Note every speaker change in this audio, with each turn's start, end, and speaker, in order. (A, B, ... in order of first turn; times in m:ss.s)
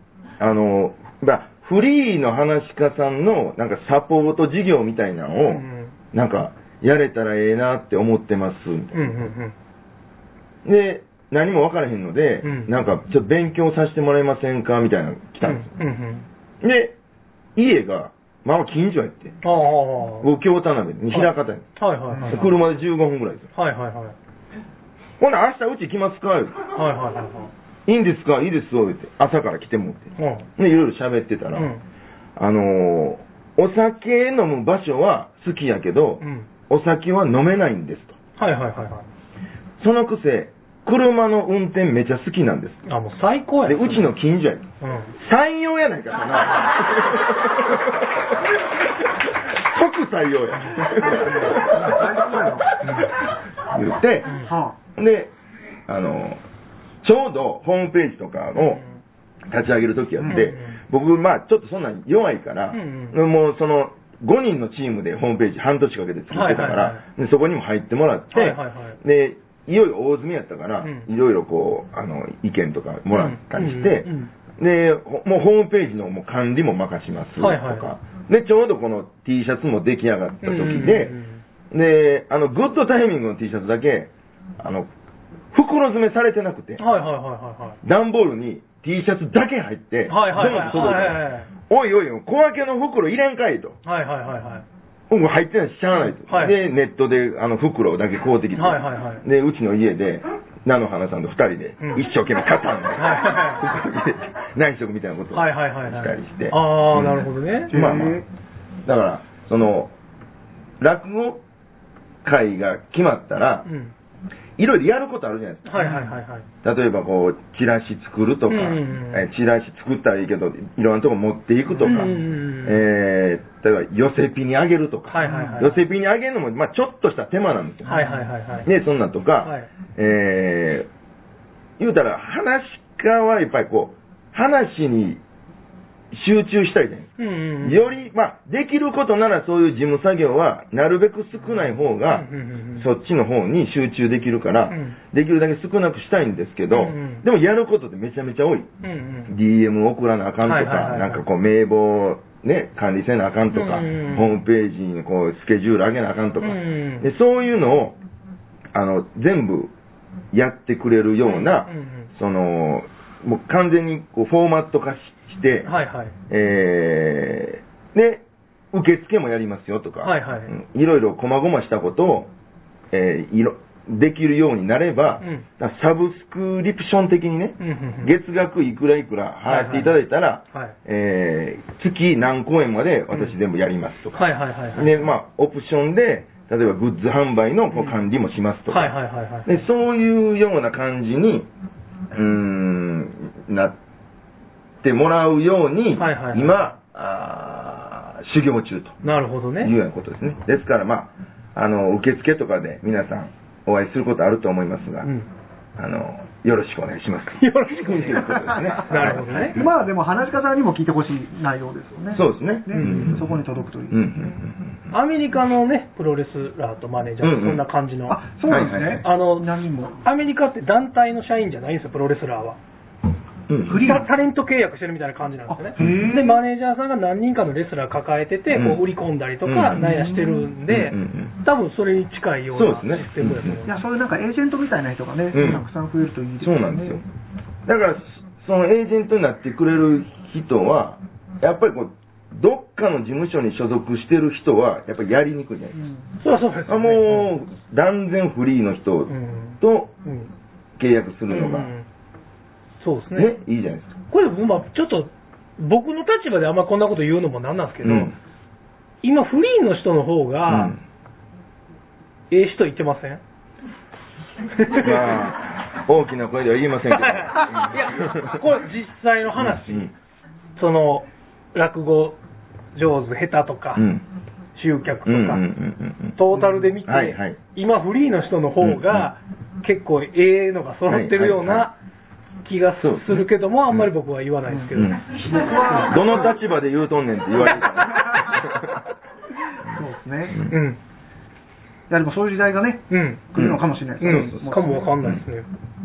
0:00.4-0:09.0 A
0:05.4-0:05.9 B
0:08.9-0:09.5 B
0:10.6-0:15.7 A
0:12.4-0:12.7 B
0:15.4-0:16.2 B
0:16.6-0:17.0 A
0:17.6-0:19.4 A
0:19.4-0:20.3 B
0:20.2-0:21.7 A
0:21.1-0:22.5 B
0:22.2-0:23.5 A
0:23.5-0:24.1 B
0:25.2-0:26.6 A
0:26.7-0:27.5 B
0:27.8-0:31.7 A
0:30.2-0:30.5 B
0:31.5-0:31.8 B
0:32.4-0:38.2 A
0:36.2-0:36.5 B
0:38.4-0:39.1 B
0:39.8-0:42.8 A
0:42.8-0:44.1 B
0:43.6-0:44.6 A
0:44.8-0:45.1 B
0:45.2-0:48.0 A
0:49.4-0:52.5 A
0:51.0-0:52.7 C
0:52.8-0:53.1 B
0:53.7-0:54.4 A
0:54.4-0:54.8 C
0:55.0-0:55.3 A
0:55.9-0:56.4 A
0:57.0-0:58.8 A
0:58.6-0:58.8 B
0:59.5-1:21.2 A
1:00.2-1:00.5 C
1:00.3-1:00.8 B
1:02.7-1:03.2 B
1:06.3-1:07.0 B
1:08.3-1:09.0 B
1:10.8-1:11.1 B
1:13.1-1:14.3 B
1:17.4-1:17.9 B
1:20.4-1:21.4 B
1:21.7-1:24.9 A
1:25.5-1:26.8 A
1:26.8-1:27.8 B
1:27.8-1:33.8 A
1:30.1-1:31.5 B
1:33.8-1:34.6 B
1:35.1-1:48.2 A
1:36.3-1:36.6 B
1:38.5-1:39.2 B
1:43.0-1:43.6 B
1:45.3-1:47.7 B
1:47.7-1:48.2 C
1:48.8-1:49.9 A
1:50.8-1:51.4 A
1:52.2-1:53.7 A
1:53.6-1:53.9 B
1:54.6-1:55.9 A
1:55.6-1:56.4 B
1:55.8-1:56.1 C
1:56.6-2:08.0 A
1:58.5-1:59.2 B
2:01.8-2:02.8 B
2:05.1-2:05.8 B
2:05.2-2:05.6 C
2:07.8-2:08.7 B
2:07.9-2:08.1 C
2:08.6-2:10.9 A
2:09.4-2:09.7 B
2:11.8-2:15.2 A
2:16.1-2:17.1 A
2:17.2-2:17.8 B
2:17.6-2:28.7 A
2:22.0-2:22.9 B
2:24.7-2:25.0 B
2:26.7-2:27.2 B
2:28.8-2:29.3 B
2:29.3-2:38.0 A
2:30.4-2:31.2 B
2:33.5-2:34.4 B
2:36.4-2:37.1 B
2:38.7-2:39.7 A
2:40.3-2:45.7 A
2:41.4-2:42.1 B
2:45.6-2:46.1 B
2:46.3-2:52.3 A
2:50.0-2:50.5 B
2:52.9-3:08.9 A
2:57.6-2:58.1 B
2:59.4-2:59.9 B
3:04.2-3:05.0 B
3:08.7-3:09.6 B
3:09.4-3:11.5 A
3:12.1-3:13.8 A
3:14.8-3:19.0 A
3:16.0-3:16.7 B
3:19.0-3:19.7 B
3:19.6-3:25.1 A
3:25.8-3:29.7 A
3:27.4-3:28.3 B
3:28.1-3:34.1 C
3:28.9-3:29.6 B
3:32.1-3:33.4 A
3:32.7-3:33.2 B
3:33.9-3:34.9 A
3:34.9-3:38.2 B
3:37.2-3:37.7 A
3:38.1-3:40.0 C
3:38.5-3:39.1 A
3:39.0-3:42.6 B
3:43.5-3:43.8 A
3:43.7-3:44.1 C
3:43.7-3:53.7 B
3:45.5-3:46.4 C
3:45.8-3:46.1 A
3:48.5-3:48.8 A
3:49.4-3:49.8 A
3:49.7-3:50.4 C
3:50.7-3:51.4 A
3:52.5-3:53.6 A
3:53.6-3:57.0 C
3:55.3-3:55.6 A
3:56.4-3:57.0 A
3:57.6-4:05.8 A
4:06.2-4:07.3 B
4:06.7-4:09.9 A
4:09.1-4:10.3 B
4:10.8-4:11.7 A
4:11.3-4:11.8 B
4:12.8-4:13.3 B
4:13.1-4:13.9 A
4:14.1-4:18.1 B
4:17.8-4:18.1 A
4:19.0-4:20.8 B
4:20.5-4:20.8 A
4:22.3-4:23.2 B
4:24.6-4:25.2 B
4:24.8-4:27.8 A
4:26.9-4:29.9 B
4:29.4-4:29.9 A
4:30.6-4:32.2 B
4:32.7-4:33.9 B
4:33.7-4:34.0 A
4:34.6-4:35.4 B
4:35.0-4:36.2 A
4:36.2-4:41.8 B
4:36.3-4:36.7 C
4:36.8-4:37.4 A
4:38.6-4:39.1 A
4:40.9-4:41.7 A
4:42.4-4:45.0 B
4:42.8-4:43.9 A
4:44.5-4:46.3 C
4:44.7-4:45.0 A
4:45.8-4:48.8 A
4:48.0-4:48.3 C
4:49.7-4:50.4 C
4:50.5-4:50.8 B
4:51.9-4:54.7 C
4:52.9-4:53.2 B
4:53.4-4:54.4 A
4:54.0-4:55.5 B
4:55.0-4:55.3 A